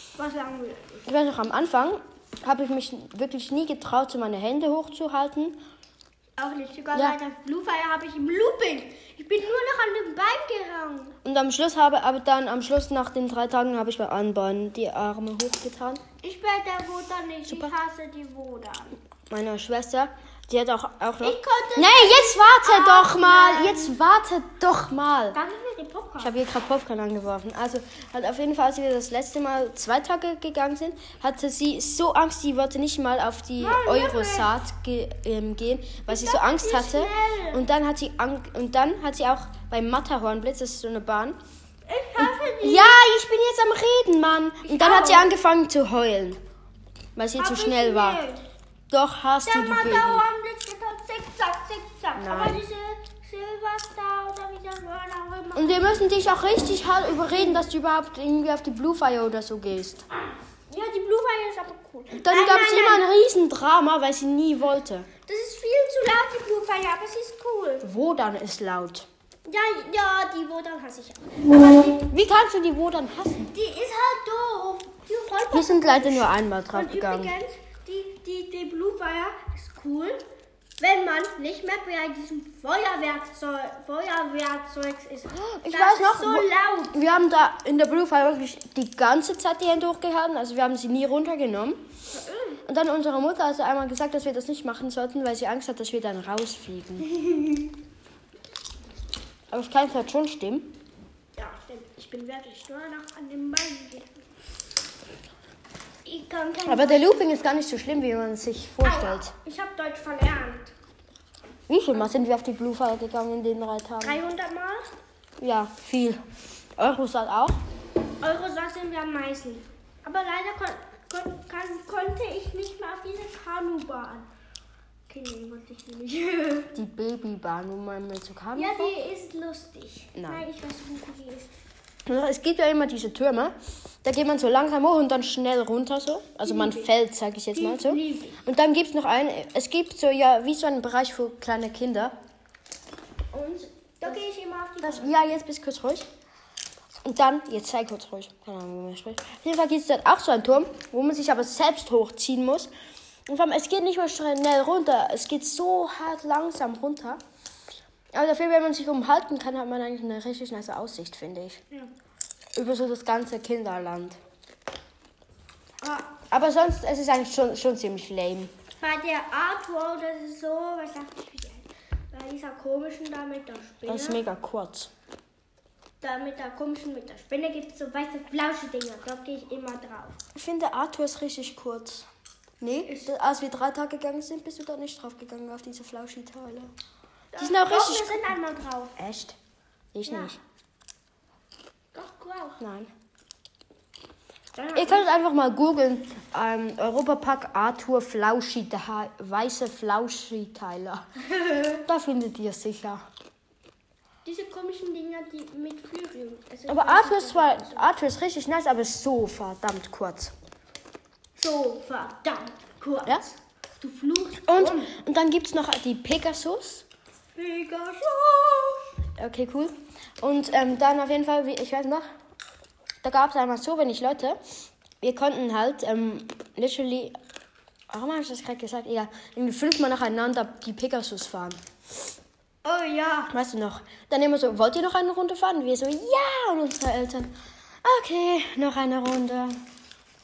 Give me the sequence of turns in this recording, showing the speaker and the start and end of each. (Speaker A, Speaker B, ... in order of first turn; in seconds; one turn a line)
Speaker A: 0.2-1.1
Speaker B: 1.0-5.6
Speaker A: 6.4-11.2
Speaker B: 11.2-16.0
Speaker A: 16.2-19.0
Speaker B: 19.3-25.4
Speaker A: 21.2-24.0
Speaker A: 25.3-26.3
Speaker B: 26.2-41.4
Speaker A: 33.6-34.5
Speaker A: 36.1-37.6
Speaker A: 41.9-43.0
Speaker B: 42.2-46.4
Speaker A: 44.6-45.3
Speaker B: 47.1-48.2
Speaker A: 47.4-48.4
Speaker B: 48.9-50.2
Speaker A: 49.4-56.1
Speaker B: 52.1-52.6
Speaker B: 55.5-60.1
Speaker A: 57.3-57.6
Speaker A: 60.7-63.1
Speaker B: 62.1-65.1
Speaker A: 65.3-67.8
Speaker B: 67.8-69.1
Speaker A: 69.4-72.0
Speaker B: 72.1-73.5
Speaker A: 73.5-80.2
Speaker B: 75.5-77.3
Speaker A: 80.8-87.0
Speaker B: 85.3-91.8
Speaker A: 92.1-92.6
Speaker B: 92.7-97.1
Speaker A: 97.1-97.7
Speaker B: 99.5-100.8
Speaker A: 101.3-104.2
Speaker A: 106.0-107.2
Speaker B: 106.7-109.3
Speaker A: 108.8-110.7
Speaker B: 111.7-114.2
Speaker A: 114.0-114.9
Speaker B: 115.4-116.2
Speaker B: 116.8-117.6
Speaker A: 118.2-124.3
Speaker A: 125.1-126.7
Speaker B: 126.7-128.9
Speaker A: 128.5-131.6
Speaker B: 130.1-130.4
Speaker B: 132.1-142.1
Speaker A: 136.4-136.9
Speaker A: 137.5-138.4
Speaker B: 143.3-144.2
Speaker A: 144.0-145.2
Speaker B: 144.8-146.1
Speaker B: 147.0-152.7
Speaker B: 153.3-157.2
Speaker B: 158.1-161.6
Speaker B: 162.6-164.2
Speaker A: 165.8-166.1
Speaker B: 166.3-168.5
Speaker A: 168.8-174.2
Speaker B: 173.9-174.9
Speaker A: 176.0-180.2
Speaker B: 180.3-182.1
Speaker B: 182.6-186.7
Speaker A: 182.9-183.1
Speaker A: 187.3-188.9
Speaker B: 187.4-188.3
Speaker B: 189.0-189.4
Speaker B: 189.9-190.4
Speaker A: 190.0-190.3
Speaker A: 191.9-192.6
Speaker B: 192.6-192.9
Speaker A: 194.5-195.1
Speaker B: 194.7-201.1
Speaker A: 201.3-201.8
Speaker B: 201.7-203.1
Speaker A: 204.2-207.9
Speaker B: 206.7-210.3
Speaker A: 211.3-214.9
Speaker B: 214.4-216.8
Speaker A: 217.3-218.9
Speaker B: 219.2-222.1
Speaker B: 223.0-224.4
Speaker B: 225.0-227.2
Speaker B: 227.9-231.6
Speaker A: 232.6-233.3
Speaker B: 233.3-237.3
Speaker B: 237.8-239.6